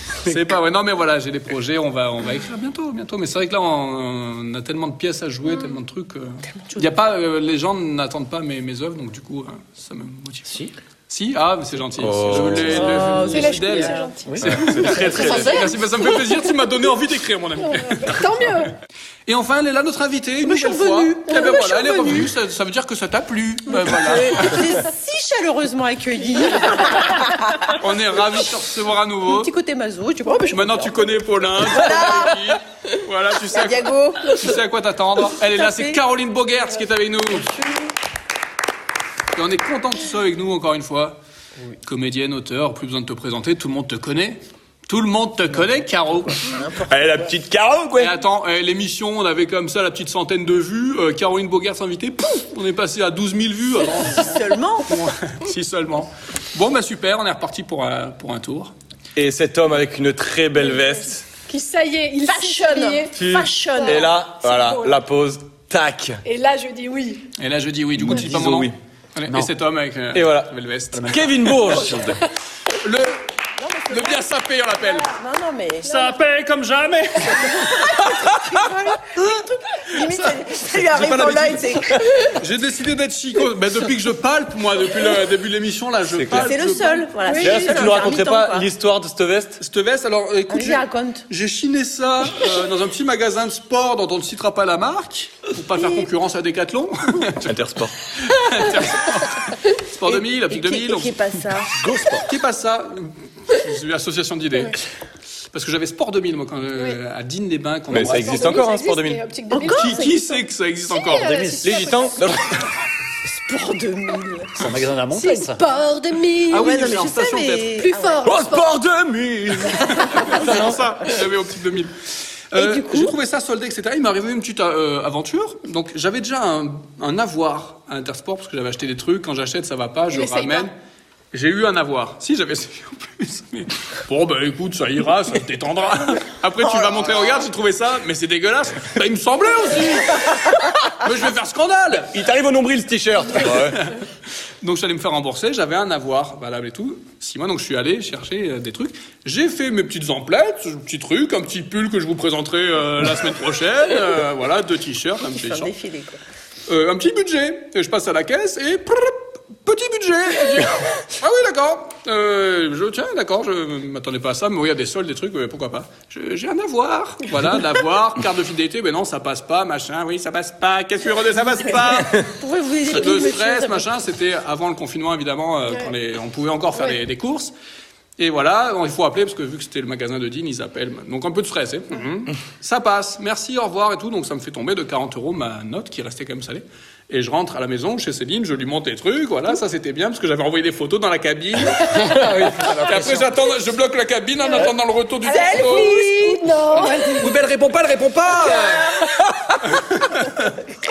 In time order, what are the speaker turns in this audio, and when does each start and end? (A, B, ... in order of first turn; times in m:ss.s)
0:00.2-0:10.5 A
0:10.5-0:10.7 B
0:11.1-0:18.2 A
0:12.0-0:13.0 C
0:12.3-0:14.2 D
0:13.2-0:16.3 E
0:14.3-0:15.6 C
0:14.8-0:15.2 D
0:15.1-0:15.7 B
0:17.6-0:18.7 E
0:19.2-0:24.7 A
0:20.4-0:22.3 D
0:23.7-0:27.8 D
0:27.7-0:29.5 A
0:29.2-0:32.6 D
0:30.5-0:37.5 A
0:33.4-0:34.6 D
0:35.4-0:36.0 D
0:37.3-0:37.9 D
0:39.3-0:41.2 A
0:41.8-0:46.6 A
0:46.4-0:47.3 D
0:46.8-0:48.1 C
0:48.0-0:58.7 A
0:54.1-0:55.0 D
0:59.2-1:01.2 C
1:00.6-1:05.0 E
1:02.3-1:04.1 D
1:03.2-1:06.2 C
1:06.2-1:07.3 E
1:07.4-1:12.1 A
1:08.0-1:08.7 C
1:10.1-1:10.5 C
1:11.0-1:11.2 B
1:11.1-1:12.2 C
1:12.7-1:13.2 A
1:13.6-1:14.2 D
1:13.9-1:15.1 A
1:14.8-1:15.9 D
1:15.8-1:16.2 E
1:15.8-1:17.8 A
1:17.4-1:22.3 D
1:20.0-1:27.4 A
1:26.1-1:26.5 C
1:26.3-1:28.7 D
1:27.3-1:28.1 E
1:27.4-1:29.6 C
1:29.6-1:37.6 A
1:30.5-1:31.2 D
1:37.4-1:37.9 C
1:38.1-1:41.2 A
1:40.1-1:41.8 D
1:41.8-1:42.3 B
1:42.3-1:44.8 A
1:45.5-1:48.6 A
1:47.9-1:49.2 C
1:48.0-1:50.3 E
1:49.5-1:50.3 D
1:49.6-1:51.4 A
1:50.9-1:52.6 E
1:51.2-1:51.6 B
1:51.6-1:52.7 C
1:53.2-1:54.6 D
1:54.5-1:55.6 B
1:55.1-1:56.9 E
1:56.5-1:57.8 A
1:56.5-1:58.5 D
1:57.8-1:58.7 E
1:58.2-2:00.8 C
1:59.6-2:01.9 A
2:00.1-2:00.6 D
2:02.5-2:10.7 A
2:02.5-2:03.2 D
2:10.1-2:10.7 E
2:11.3-2:20.3 A
2:16.6-2:17.4 D
2:21.0-2:22.2 A
2:22.1-2:23.8 C
2:23.4-2:23.9 A
2:24.6-2:35.7 A
2:35.2-2:36.2 D
2:36.7-2:52.3 A
2:51.6-2:53.9 D
2:52.9-2:57.5 A
2:58.2-3:16.0 A
3:11.8-3:13.2 B
3:15.2-3:17.1 D
3:15.2-3:17.4 E
3:17.1-3:20.6 A
3:18.4-3:19.5 D